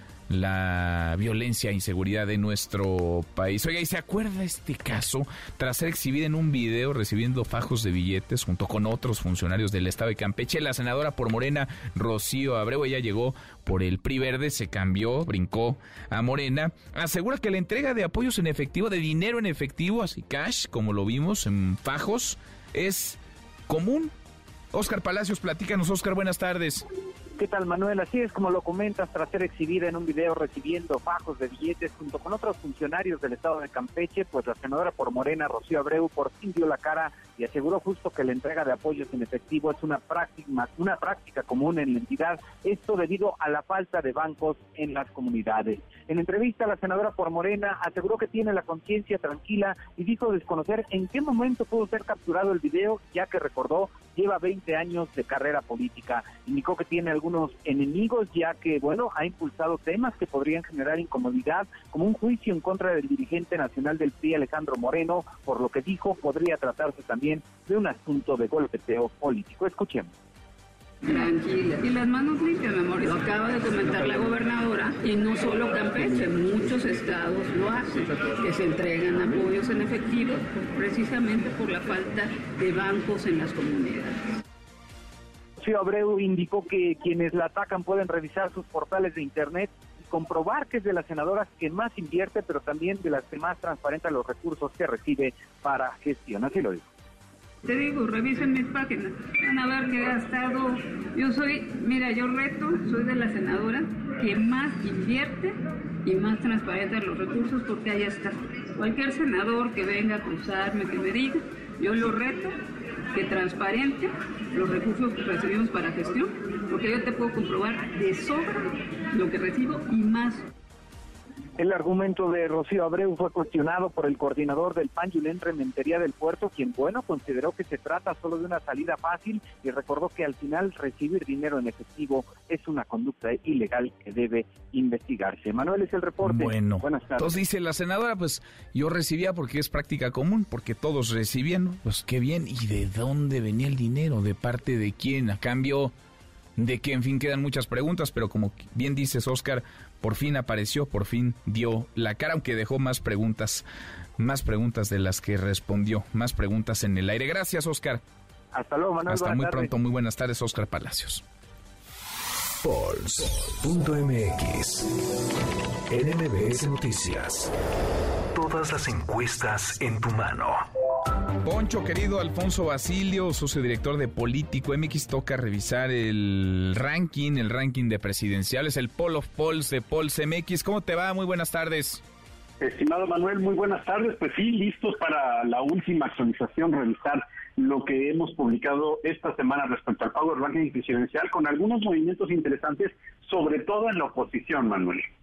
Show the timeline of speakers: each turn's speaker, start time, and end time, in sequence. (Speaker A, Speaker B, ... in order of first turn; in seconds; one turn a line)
Speaker A: 0.3-24.1
Speaker A: 24.7-26.8
Speaker B: 27.4-70.1
Speaker C: 71.0-84.2
Speaker B: 85.6-96.9
Speaker C: 97.6-112.5
Speaker C: 113.1-120.4
Speaker B: 121.6-137.4
Speaker A: 136.2-145.9
Speaker A: 146.6-153.7
Speaker A: 154.2-158.0
Speaker B: 158.5-159.7
Speaker A: 159.1-161.2
Speaker D: 162.6-164.9
Speaker D: 165.9-167.5
Speaker D: 168.3-170.6
Speaker A: 171.4-182.0
Speaker E: 182.6-195.1